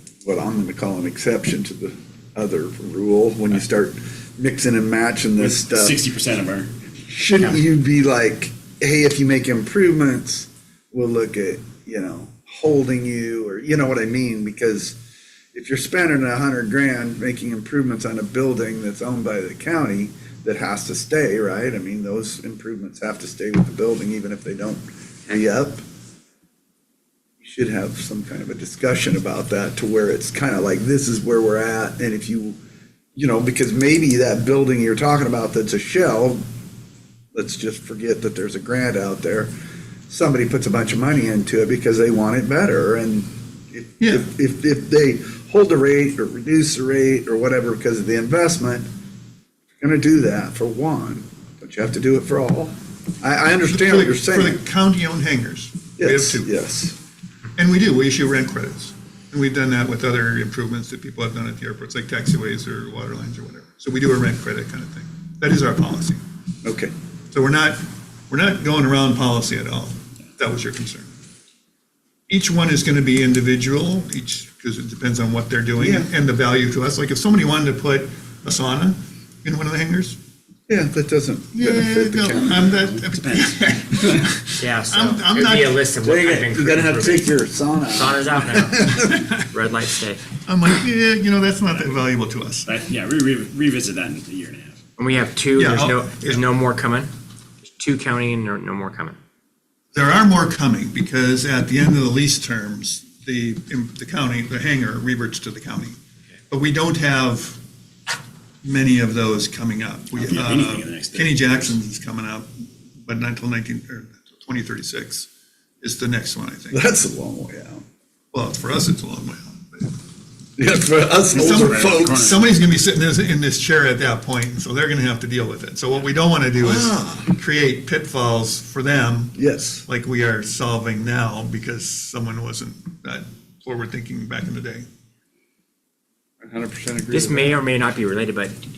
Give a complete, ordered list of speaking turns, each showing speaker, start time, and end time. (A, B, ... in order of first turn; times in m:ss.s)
0:00.2-0:06.0 A
0:05.4-0:06.8 B
0:07.0-0:15.0 A
0:15.5-0:25.8 A
0:27.4-0:32.6 A
0:33.1-0:36.4 A
0:37.3-0:39.5 A
0:40.1-0:48.8 A
0:44.0-0:44.2 C
0:49.8-0:54.6 A
0:53.7-0:56.5 C
0:56.0-0:57.0 A
0:57.6-1:06.2 C
1:06.6-1:06.9 A
1:07.3-1:11.1 C
1:12.3-1:20.2 C
1:15.8-1:16.1 A
1:20.7-1:22.8 A
1:21.5-1:24.4 C
1:22.6-1:24.4 B
1:24.6-1:27.3 D
1:24.9-1:25.8 C
1:26.0-1:29.3 A
1:27.9-1:30.2 D
1:30.4-1:32.7 C
1:32.6-1:34.8 B
1:35.0-1:37.1 D
1:35.6-1:36.4 C
1:37.6-1:39.2 D
1:39.9-1:46.0 C
1:46.5-1:47.6 C
1:48.6-1:52.5 C
1:50.1-1:51.6 B
1:53.0-1:55.3 C
1:55.8-1:56.8 C
1:56.7-1:57.8 A
1:58.3-2:00.0 C
2:00.6-2:02.3 A
2:01.3-2:14.8 C
2:01.3-2:02.4 B
2:06.6-2:07.3 A
2:09.3-2:09.8 A
2:16.4-2:17.6 A
2:17.1-2:18.5 D